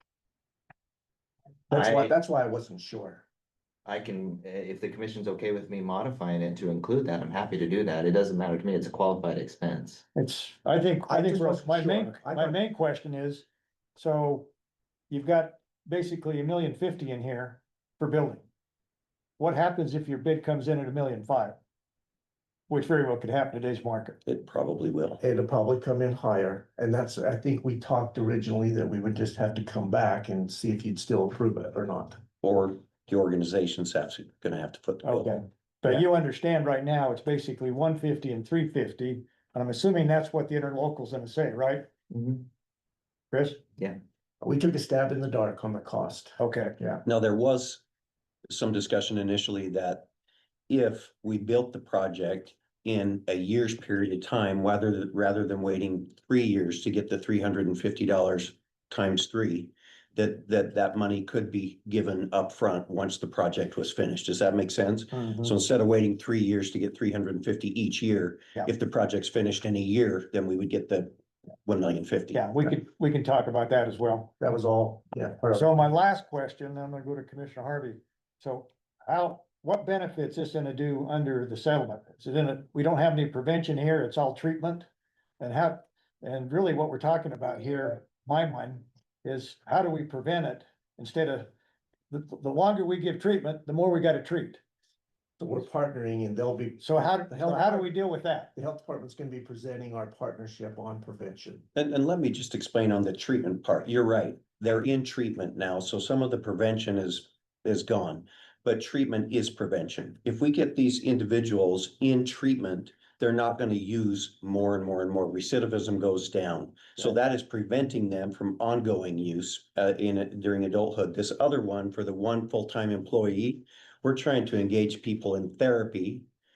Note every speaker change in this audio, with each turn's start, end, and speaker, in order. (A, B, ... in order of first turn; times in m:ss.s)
0:01.7-0:03.2 A
0:01.7-0:02.1 B
0:03.8-0:10.0 B
0:10.1-0:14.5 C
0:11.0-0:12.6 A
0:15.1-0:18.4 C
0:19.4-0:21.6 C
0:22.7-0:24.2 C
0:24.2-0:25.2 D
0:25.2-0:32.2 A
0:32.4-0:35.4 D
0:35.0-0:41.9 C
0:42.1-0:42.4 B
0:43.3-0:43.6 C
0:44.4-0:47.0 A
0:46.4-0:46.8 C
0:47.0-0:47.8 D
0:48.5-0:50.1 D
0:50.7-1:12.6 D
1:05.1-1:05.5 C
1:12.3-1:14.3 C
1:14.4-1:15.7 A
1:15.5-1:24.9 C
1:25.4-1:31.5 C
1:32.1-1:34.6 C
1:35.4-1:38.0 A
1:36.8-1:38.5 C
1:38.5-1:41.6 A
1:41.7-2:06.3 D